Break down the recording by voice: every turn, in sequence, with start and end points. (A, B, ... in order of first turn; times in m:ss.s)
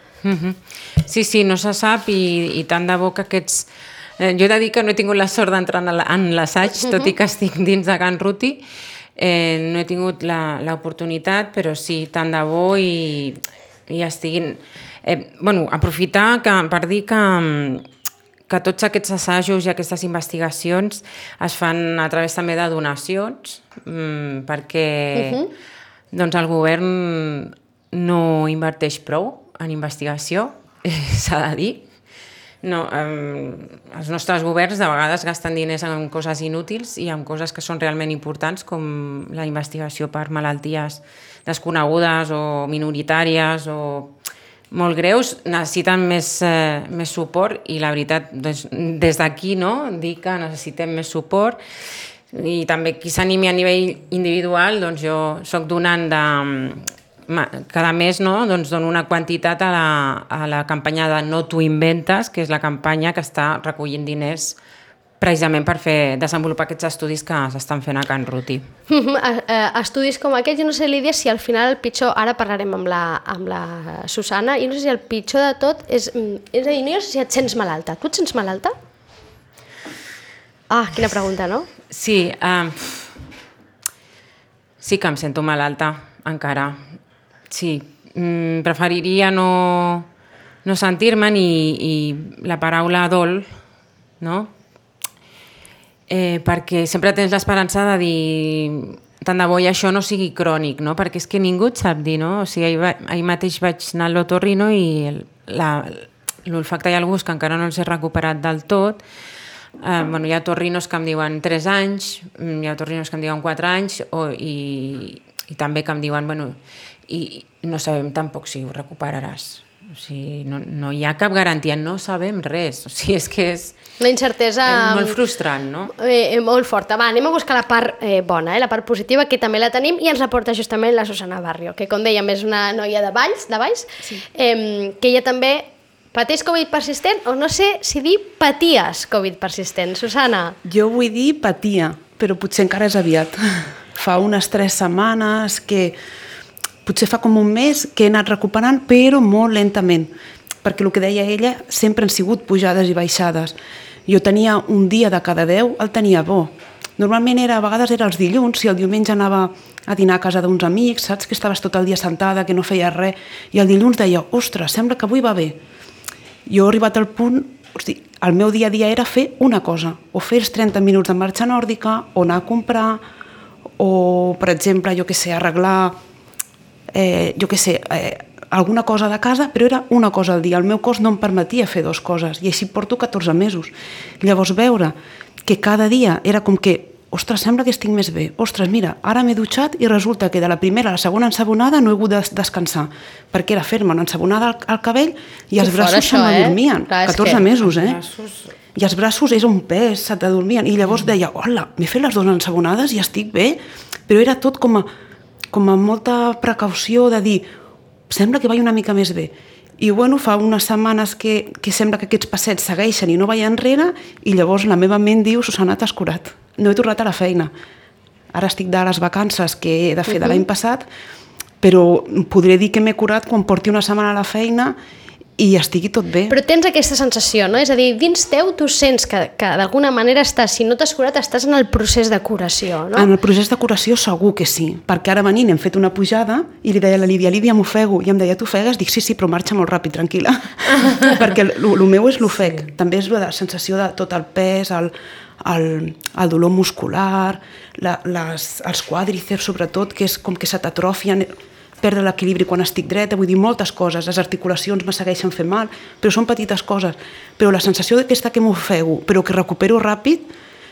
0:00.2-0:08.6 A
0:06.8-0:07.1 B
0:09.2-0:17.8 A
0:18.5-0:25.4 A
0:25.1-0:25.5 B
0:26.1-0:31.8 A
0:32.6-0:44.1 A
0:44.7-0:51.6 A
0:52.3-1:04.6 A
1:05.2-1:08.6 A
1:08.9-1:18.7 B
1:20.7-1:21.7 B
1:21.9-1:23.1 A
1:24.8-1:26.9 A
1:27.5-1:30.1 A
1:30.6-1:33.5 A
1:34.2-1:34.5 A
1:36.1-1:49.0 A
1:49.8-1:56.6 A
1:57.1-2:03.8 A
2:04.0-2:05.2 B
2:04.6-2:05.9 A
2:05.9-2:20.6 B
2:20.6-2:26.0 C
2:26.8-2:30.1 C
2:30.6-2:33.6 C
2:34.1-2:45.6 C
2:46.4-2:53.0 C
2:53.8-2:56.0 C
2:56.9-3:18.0 C
3:15.6-3:17.4 B
3:17.6-3:18.5 A
3:18.7-3:24.9 C
3:25.5-3:27.5 C
3:28.1-3:37.5 C
3:38.3-3:40.8 C
3:41.6-3:44.8 C
3:45.4-3:46.4 C
3:46.3-3:53.1 B
3:52.9-4:20.3 C